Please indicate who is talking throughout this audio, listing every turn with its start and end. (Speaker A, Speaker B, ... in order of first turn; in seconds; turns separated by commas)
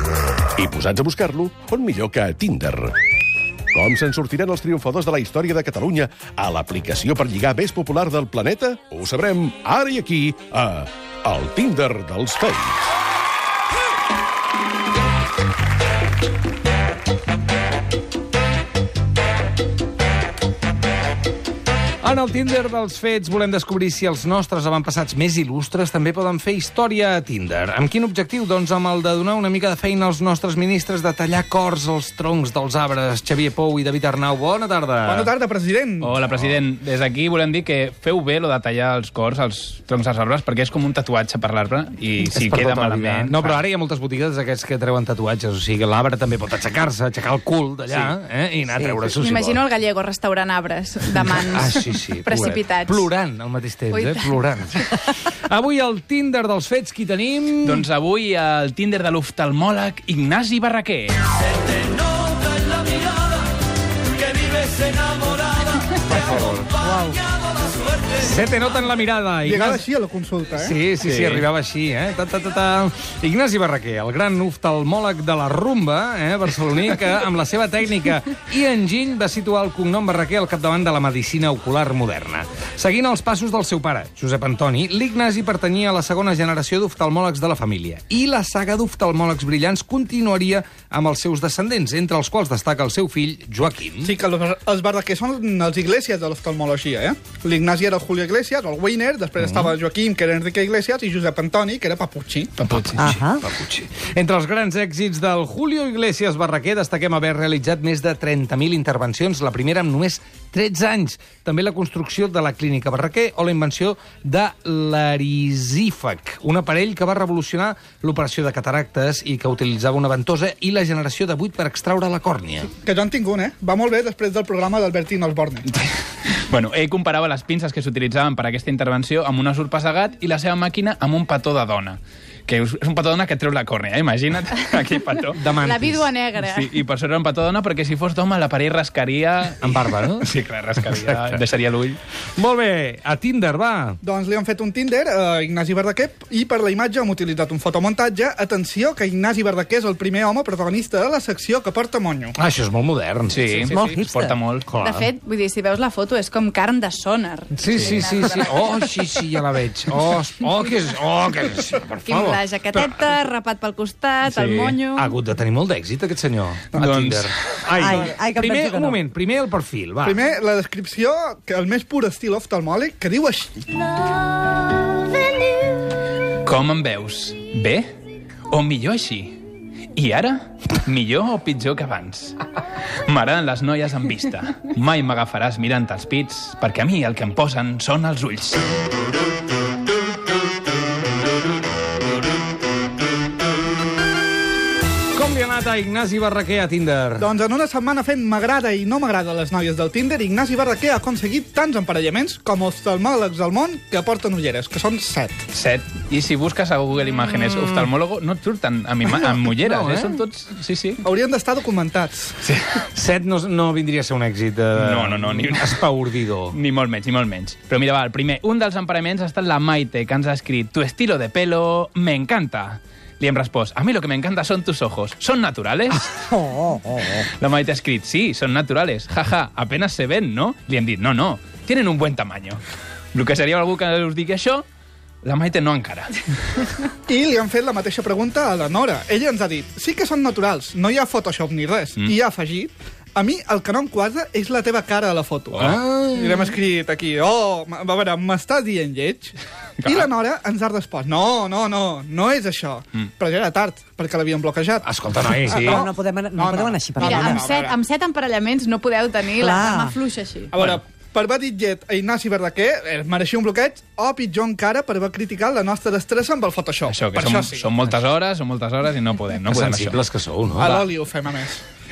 Speaker A: 0.6-3.0, Speaker A: 3.7-12.8, Speaker B: 22.0-35.4, Speaker C: 35.0-36.2, Speaker D: 36.0-43.6, Speaker B: 42.2-49.6, Speaker E: 48.7-49.1, Speaker F: 49.2-53.1, Speaker B: 51.4-57.9, Speaker F: 53.9-54.7, Speaker D: 57.6-61.3, Speaker B: 66.0-67.1, Speaker B: 68.1-69.8, Speaker C: 69.4-70.8, Speaker B: 70.5-94.2, Speaker D: 71.0-71.5, Speaker C: 94.0-102.6, Speaker B: 99.4-99.8, Speaker D: 102.6-103.0, Speaker B: 102.7-122.7, Speaker E: 103.0-103.4, Speaker C: 122.8-125.8, Speaker D: 125.8-135.5, Speaker B: 135.3-136.1, Speaker F: 135.5-136.7, Speaker D: 136.4-142.0, Speaker B: 139.6-141.4, Speaker B: 142.4-144.0, Speaker C: 144.0-152.4, Speaker B: 152.4-153.7, Speaker D: 153.3-154.7, Speaker E: 153.7-154.4, Speaker B: 154.7-155.1, Speaker F: 154.8-158.9, Speaker B: 157.5-162.5, Speaker F: 162.0-165.1, Speaker D: 164.3-164.8, Speaker B: 164.9-170.2, Speaker D: 166.7-167.3, Speaker E: 167.7-169.0, Speaker C: 170.0-173.7, Speaker D: 176.4-177.9, Speaker D: 178.5-179.4, Speaker D: 179.9-182.4, Speaker D: 183.1-188.7, Speaker B: 195.1-197.3, Speaker C: 197.2-205.4, Speaker D: 205.5-211.0, Speaker B: 209.5-210.2, Speaker C: 211.0-212.4, Speaker D: 212.4-212.8, Speaker B: 212.9-216.6, Speaker D: 214.8-215.8, Speaker D: 216.5-226.2, Speaker E: 226.3-227.2, Speaker D: 227.1-232.6, Speaker D: 233.1-234.6, Speaker D: 235.2-236.7, Speaker C: 237.1-254.9, Speaker D: 245.5-245.8, Speaker B: 245.6-246.5, Speaker D: 249.8-250.1, Speaker B: 254.8-255.9, Speaker C: 255.4-257.8, Speaker E: 255.6-257.4, Speaker F: 257.0-260.5, Speaker E: 259.4-260.0, Speaker C: 260.5-267.7, Speaker D: 266.9-270.0, Speaker B: 269.5-270.9, Speaker C: 270.6-271.6